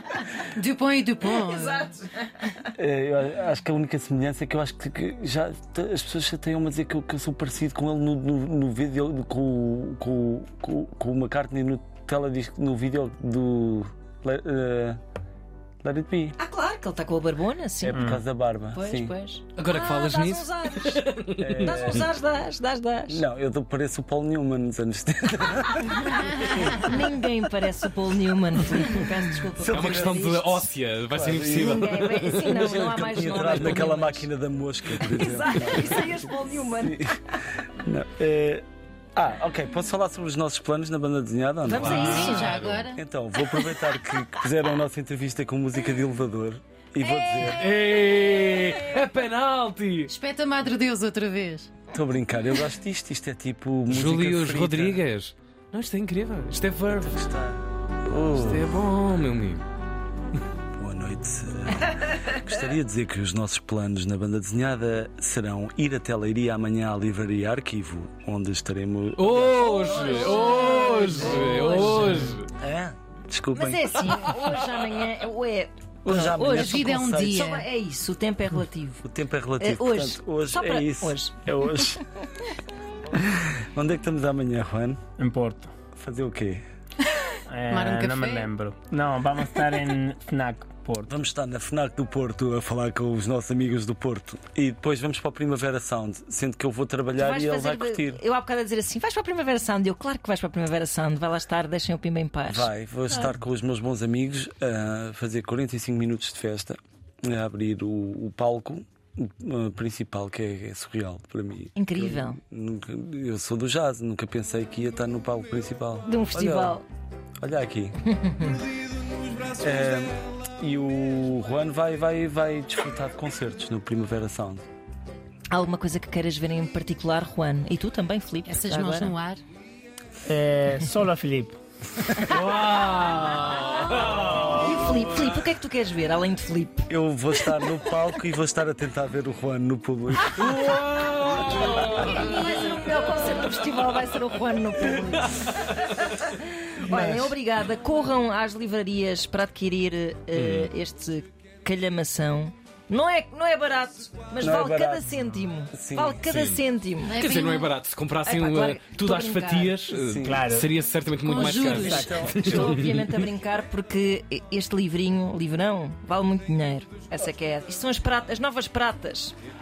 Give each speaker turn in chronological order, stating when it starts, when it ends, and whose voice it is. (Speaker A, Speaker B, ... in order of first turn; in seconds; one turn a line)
Speaker A: 0.4-1.9
Speaker B: 1.4-2.5
Speaker C: 2.8-15.0
Speaker C: 15.8-16.4
Speaker B: 16.4-18.1
Speaker C: 17.8-19.1
Speaker D: 17.9-18.2
Speaker B: 18.7-23.2
Speaker E: 19.6-22.0
Speaker C: 21.4-22.1
Speaker C: 23.1-26.8
Speaker B: 26.5-30.6
Speaker C: 29.6-30.3
Speaker E: 29.7-32.5
Speaker C: 31.1-31.9
Speaker B: 31.5-34.3
Speaker C: 32.4-38.6
Speaker E: 33.4-33.8
Speaker B: 35.0-37.3
Speaker C: 39.2-47.6
Speaker B: 41.6-42.6
Speaker E: 41.7-42.9
Speaker A: 42.2-43.0
Speaker B: 47.0-47.6
Speaker E: 47.4-50.1
Speaker A: 50.1-51.7
Speaker C: 51.9-55.0
Speaker E: 53.9-57.2
Speaker C: 56.9-58.7
Speaker E: 58.3-59.6
Speaker C: 60.8-70.5
Speaker E: 69.2-72.5
Speaker B: 69.6-72.4
Speaker C: 72.6-74.0
Speaker B: 73.5-79.0
Speaker C: 76.0-77.5
Speaker A: 76.6-77.7
Speaker C: 79.0-82.0
Speaker B: 79.6-82.0
Speaker C: 83.1-85.0
Speaker D: 85.2-85.7
Speaker C: 86.0-86.6
Speaker D: 87.5-91.1
Speaker A: 87.7-88.5
Speaker C: 91.1-98.2
Speaker B: 97.2-102.7
Speaker C: 102.5-116.8
Speaker B: 111.8-112.4
Speaker B: 116.1-116.8
Speaker C: 117.4-118.0
Speaker B: 118.0-118.6
Speaker C: 119.5-124.7
Speaker B: 125.5-129.1
Speaker A: 128.5-129.4
Speaker D: 130.2-131.6
Speaker E: 132.2-135.3
Speaker B: 134.2-136.9
Speaker C: 136.9-140.5
Speaker E: 140.3-142.5
Speaker B: 141.6-157.2
Speaker C: 146.9-147.3
Speaker E: 150.3-150.7
Speaker C: 154.4-155.2
Speaker C: 155.7-156.2
Speaker E: 156.2-156.6
Speaker A: 157.1-157.7
Speaker E: 157.2-163.2
Speaker B: 158.3-159.8
Speaker C: 160.0-160.4
Speaker D: 160.2-160.7
Speaker B: 161.2-169.3
Speaker D: 161.3-162.1
Speaker C: 161.7-162.8